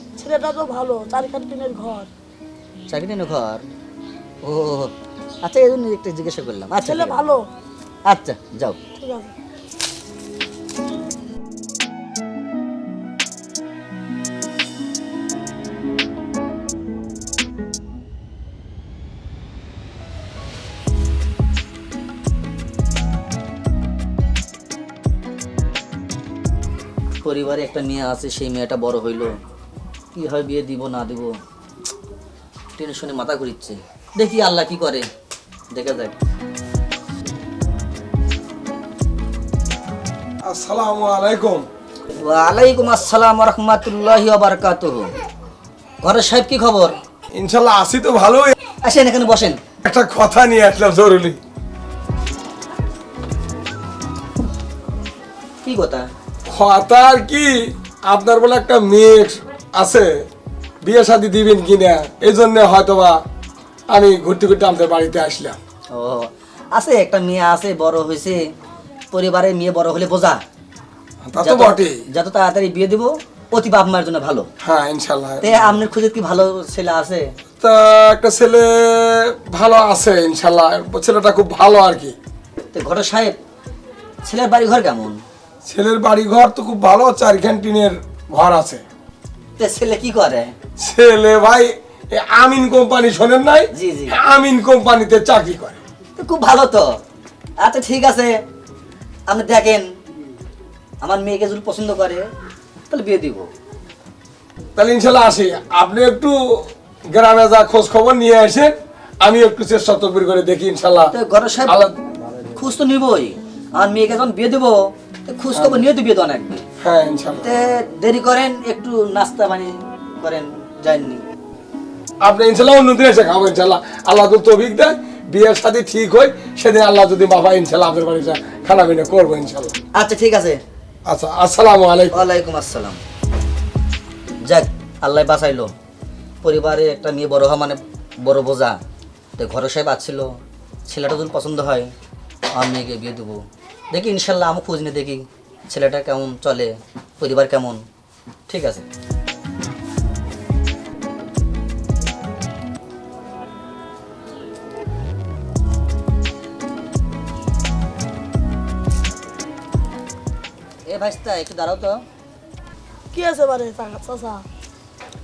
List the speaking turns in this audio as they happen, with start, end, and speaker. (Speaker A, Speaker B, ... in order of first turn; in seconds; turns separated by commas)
Speaker A: 0.2-2.1, Speaker B: 2.9-3.6, Speaker B: 4.4-4.9, Speaker B: 5.5-7.2, Speaker A: 6.8-7.5, Speaker B: 8.1-8.8, Speaker A: 9.0-9.3, Speaker B: 27.2-29.4, Speaker B: 30.1-31.3, Speaker B: 32.8-35.0, Speaker B: 35.7-36.1, Speaker C: 40.5-41.6, Speaker B: 42.2-45.1, Speaker B: 46.0-46.9, Speaker C: 47.4-48.5, Speaker B: 48.9-49.6, Speaker C: 49.9-51.4, Speaker B: 55.6-56.1, Speaker C: 56.5-57.5, Speaker C: 58.1-60.1, Speaker C: 60.8-63.2, Speaker C: 63.9-65.6, Speaker B: 65.9-68.4, Speaker B: 69.1-70.4, Speaker C: 71.3-72.0, Speaker B: 71.4-74.5, Speaker C: 74.6-75.8, Speaker B: 75.4-77.3, Speaker C: 77.6-82.2, Speaker B: 82.7-83.4, Speaker B: 84.2-85.2, Speaker C: 85.7-88.8, Speaker B: 89.6-90.5, Speaker C: 90.8-95.8, Speaker B: 93.7-94.1, Speaker B: 96.2-97.0, Speaker B: 97.6-98.3, Speaker B: 99.3-99.9, Speaker B: 101.0-102.2, Speaker B: 102.9-103.5, Speaker C: 104.8-106.4, Speaker C: 107.1-111.1, Speaker B: 111.1-111.8, Speaker C: 111.7-112.0, Speaker B: 112.5-114.8, Speaker B: 115.3-116.7, Speaker C: 115.5-115.9, Speaker C: 116.8-117.5, Speaker B: 117.4-121.2, Speaker C: 122.2-129.7, Speaker B: 129.9-130.6, Speaker C: 131.1-132.2, Speaker B: 132.1-133.0, Speaker B: 134.4-135.7, Speaker B: 136.4-138.8, Speaker B: 139.4-140.3, Speaker B: 140.9-141.9, Speaker B: 142.5-147.8, Speaker B: 148.5-148.8, Speaker B: 160.9-162.0, Speaker A: 163.1-164.4